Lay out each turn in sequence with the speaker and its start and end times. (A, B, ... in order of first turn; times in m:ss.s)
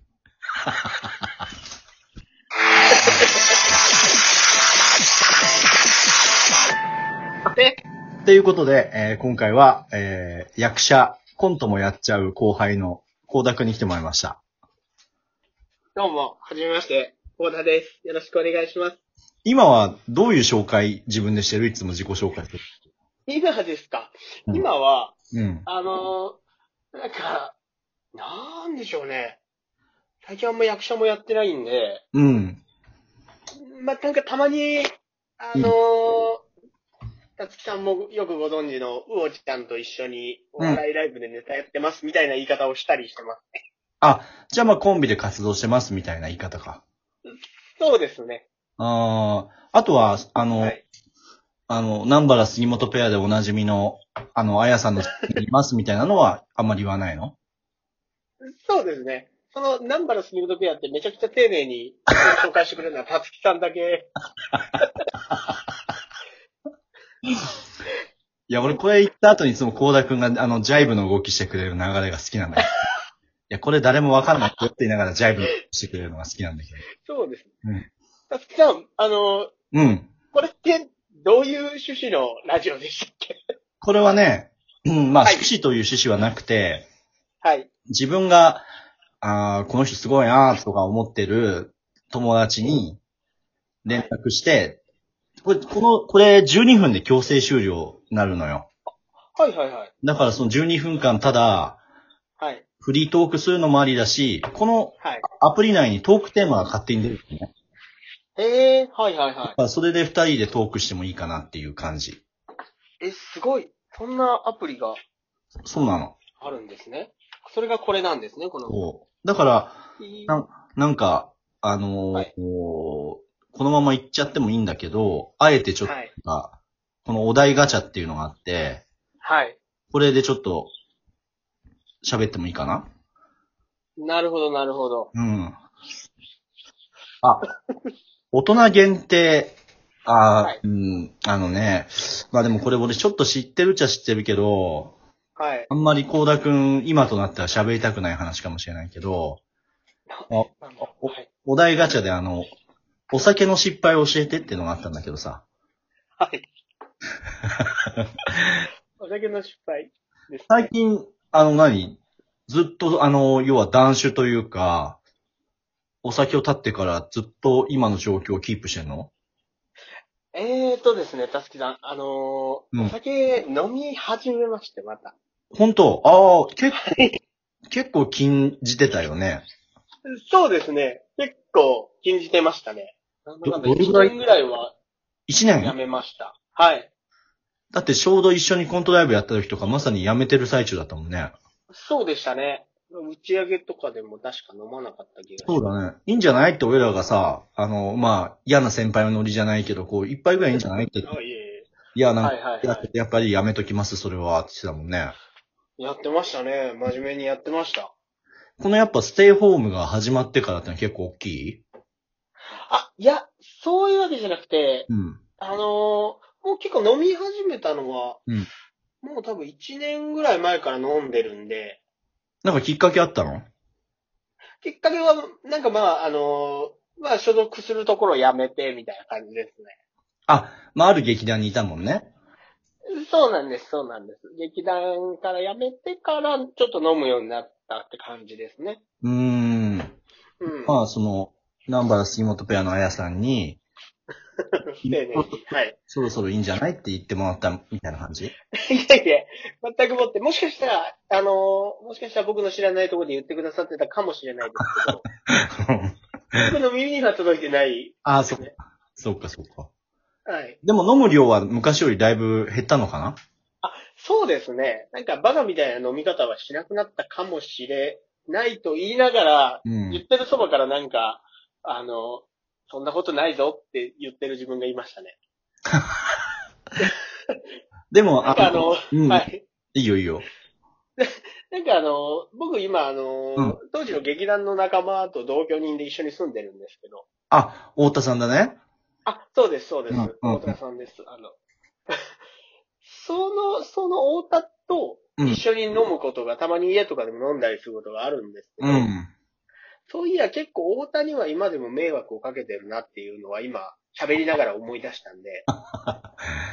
0:03.0-0:03.6 A
0:07.5-0:07.8 A
0:08.2-0:14.4 B
0:16.0-0:19.0 A
0:19.4-0:22.6 B
0:23.2-0:25.1 A
0:25.3-0:25.6 B
0:25.6-0:26.4 A
0:27.0-0:27.6 A
0:28.1-0:29.4 A
0:30.2-0:32.0 A
0:32.1-0:32.6 B
0:33.6-0:36.4 A
0:37.4-0:43.6 A
0:44.0-0:46.8 B
0:47.3-0:48.5 A
0:48.8-0:50.8 B
0:50.6-0:50.8 A
0:51.7-0:57.3 B
0:58.5-1:04.1 A
1:08.5-1:12.8 B
1:13.5-1:16.8 B
1:17.0-1:17.5 A
1:18.3-1:19.5 A
1:19.7-1:20.1 B
1:20.3-1:23.4 A
1:23.8-1:26.9 B
1:27.4-1:27.7 A
1:27.9-1:28.6 B
1:29.2-1:33.0 B
1:33.8-1:34.8 B
1:33.9-1:34.1 A
1:35.4-1:38.7 B
1:39.4-1:39.9 A
1:40.0-1:41.8 B
1:42.4-1:42.6 A
1:42.8-1:47.5 B
1:45.0-1:45.2 A
1:48.4-1:49.6 A
1:49.4-1:52.2 B
1:53.0-1:55.0 A
1:55.7-1:56.1 B
1:56.4-1:58.8 A
1:58.7-2:08.8 B
2:00.0-2:00.3 A
2:05.8-2:06.1 A
2:09.2-2:09.6 A
2:09.9-2:10.7 B
2:12.0-2:12.8 B
2:14.0-2:15.1 A
2:15.1-2:15.6 B
2:18.3-2:24.9 B
2:25.4-2:25.7 A
2:25.7-2:29.4 B
2:30.1-2:31.3 A
2:30.3-2:32.5 B
2:33.1-2:35.4 B
2:36.2-2:36.5 A
2:39.0-2:40.7 A
2:40.5-2:45.0 B
2:46.0-2:49.1 B
2:50.3-2:55.2 A
2:55.5-2:56.8 B
2:56.8-2:57.2 A
2:57.7-2:59.4 B
3:00.1-3:04.7 A
3:03.4-3:04.2 B
3:05.3-3:05.8 B
3:05.6-3:06.9 A
3:07.7-3:11.3 B
3:11.7-3:15.6 A
3:15.4-3:21.1 B
3:21.0-3:21.7 A
3:21.9-3:25.2 B
3:22.2-3:22.9 A
3:25.8-3:27.9 A
3:28.6-3:31.6 B
3:32.7-3:34.9 A
3:34.9-3:35.2 B
3:35.4-3:38.2 A
3:39.0-3:41.8 A
3:42.4-3:43.5 B
3:44.6-3:49.8 A
3:50.3-3:52.1 B
3:52.9-3:58.8 A
3:59.0-4:00.0 B
4:00.4-4:00.8 A
4:00.6-4:03.6 B
4:04.4-4:05.8 A
4:04.8-4:08.3 B
4:08.6-4:15.0 A
4:15.1-4:16.5 B
4:16.4-4:18.5 A
4:18.0-4:19.7 B
4:20.3-4:20.6 A
4:20.6-4:23.2 B
4:23.6-4:35.2 A
4:29.6-4:30.0 B
4:35.7-4:36.0 B
4:36.8-4:37.4 A
4:37.9-4:40.3 B
4:38.2-4:39.4 A
4:41.0-4:47.1 A
4:47.3-4:48.6 B
4:49.1-4:51.4 A
4:49.9-4:50.6 B
4:52.8-4:58.9 A
4:58.6-4:59.1 B
4:59.9-5:05.4 A
5:05.5-5:06.1 B